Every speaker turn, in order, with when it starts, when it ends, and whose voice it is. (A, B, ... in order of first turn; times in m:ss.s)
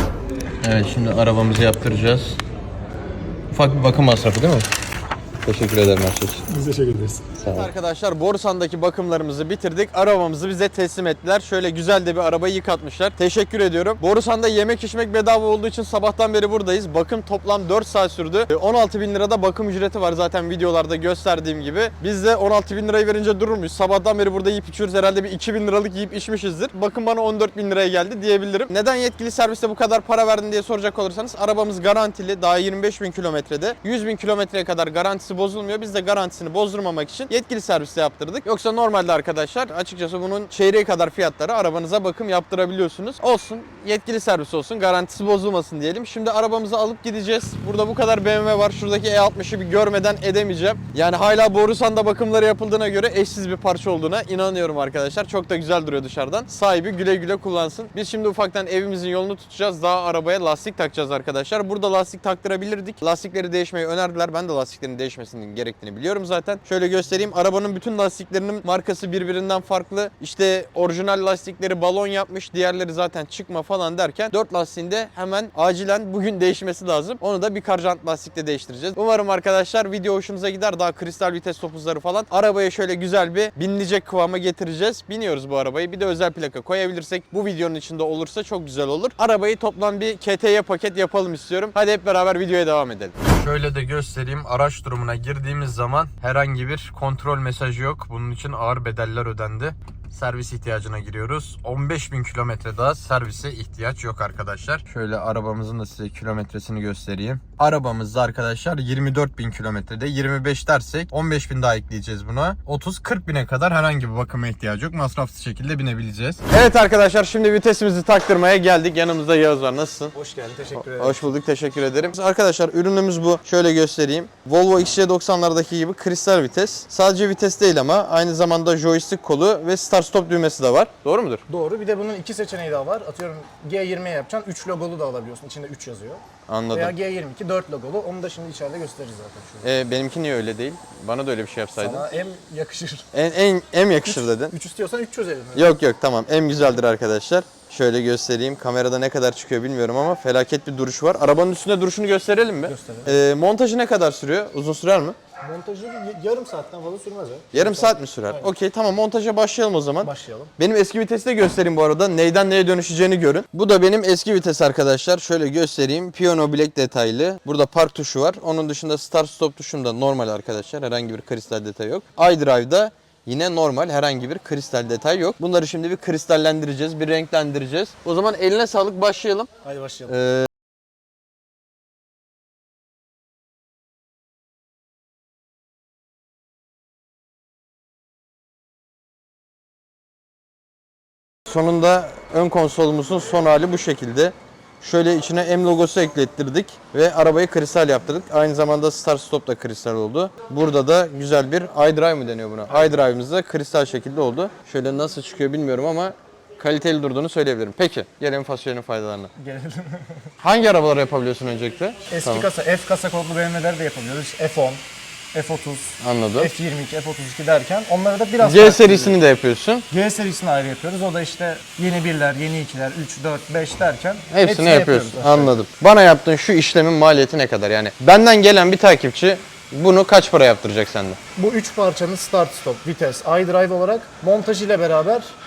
0:00.6-0:02.4 A
0:03.5-0:04.6 A
0:05.4-0:06.4 A
0:06.5-0:07.4 B
0:07.4-2:00.1 A
2:00.1-2:01.3 B
2:00.8-2:11.4 A
2:11.5-2:19.7 B
2:16.5-2:16.9 A
2:19.6-2:22.0 A
2:21.8-2:23.1 B
2:23.1-2:24.5 A
2:24.0-2:25.8 B
2:25.5-2:35.2 A
2:32.6-2:33.2 B
2:35.4-2:38.5 B
2:37.5-2:59.5 A
2:40.0-2:40.5 B
2:59.6-3:00.1 B
3:00.1-3:00.5 A
3:11.5-3:29.3 A
3:29.4-3:30.0 B
3:30.4-3:32.4 A
3:32.1-3:34.8 B
3:35.3-3:39.2 B
3:36.0-3:36.5 A
3:38.4-3:39.8 A
3:39.9-3:45.6 B
3:44.3-3:51.2 A
3:51.4-3:55.3 B